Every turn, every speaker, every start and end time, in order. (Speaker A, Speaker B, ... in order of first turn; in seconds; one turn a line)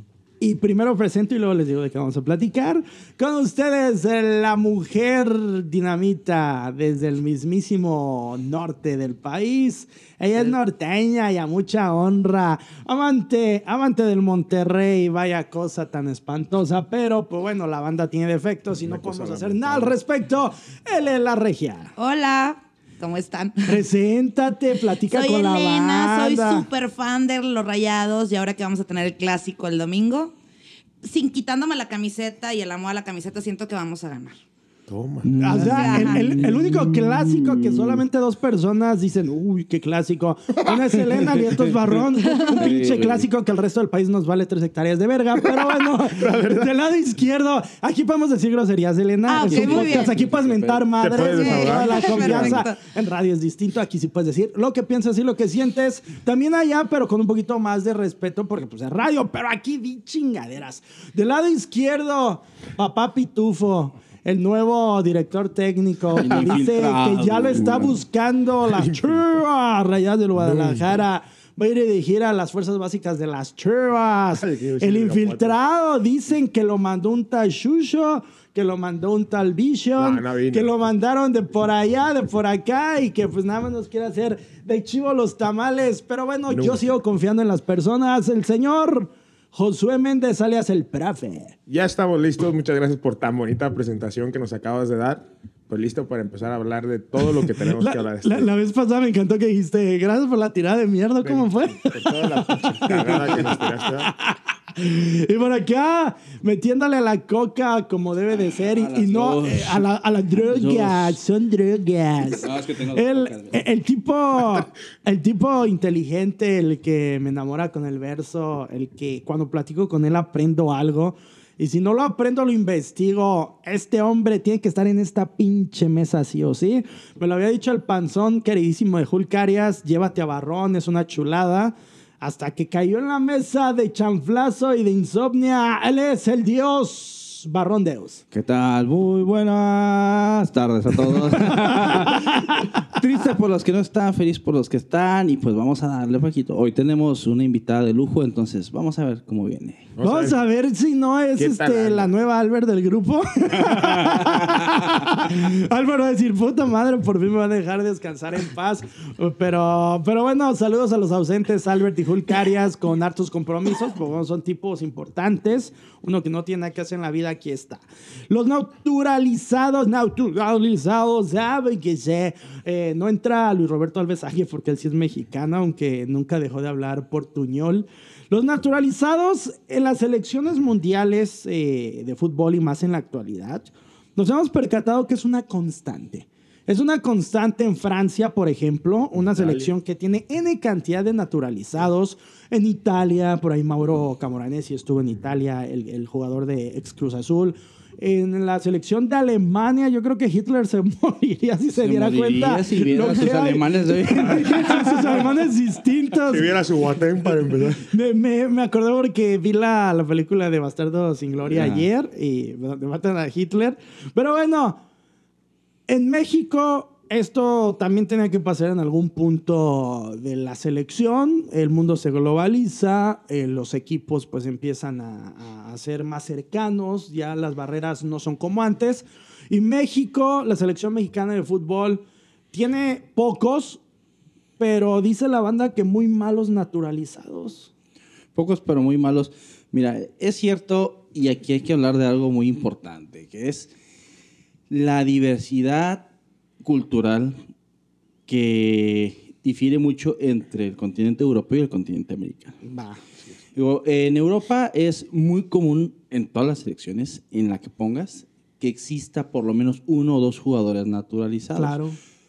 Speaker A: 0.4-21.9
Speaker B: 18.8-20.0
Speaker C: 22.0-23.8
Speaker A: 23.7-26.7
Speaker C: 25.0-30.3
Speaker C: 31.0-34.4
Speaker B: 34.9-35.3
Speaker D: 35.3-38.0
Speaker A: 35.3-91.5
Speaker C: 35.6-36.4
Speaker B: 40.6-41.0
Speaker C: 42.2-42.7
Speaker D: 42.5-43.3
Speaker B: 45.4-46.7
Speaker C: 49.3-50.1
Speaker D: 49.4-51.2
Speaker B: 51.0-52.6
Speaker C: 51.2-52.8
Speaker D: 66.1-67.9
Speaker B: 68.8-69.2
Speaker B: 70.4-70.9
Speaker B: 74.3-75.6
Speaker B: 80.0-80.7
Speaker B: 86.5-86.9
Speaker B: 91.7-98.5
Speaker A: 97.2-102.9
Speaker B: 101.2-104.1
Speaker D: 102.9-103.4
Speaker A: 104.0-138.2
Speaker D: 108.6-109.8
Speaker D: 110.4-111.2
Speaker D: 112.3-113.6
Speaker D: 138.3-149.9
Speaker A: 141.3-142.7
Speaker B: 150.0-150.4
Speaker A: 150.0-206.5
Speaker B: 151.4-152.1
Speaker D: 153.6-154.7
Speaker B: 189.2-189.7
Speaker D: 201.8-205.3
Speaker B: 206.3-207.9
Speaker A: 207.8-214.8
Speaker D: 211.5-211.9
Speaker A: 215.9-232.0
Speaker A: 232.5-233.8
Speaker A: 234.6-237.7
Speaker D: 238.3-243.7
Speaker D: 244.7-246.1
Speaker D: 246.6-247.4
Speaker D: 248.3-252.6
Speaker A: 252.6-253.0
Speaker D: 253.6-261.8
Speaker A: 261.6-262.0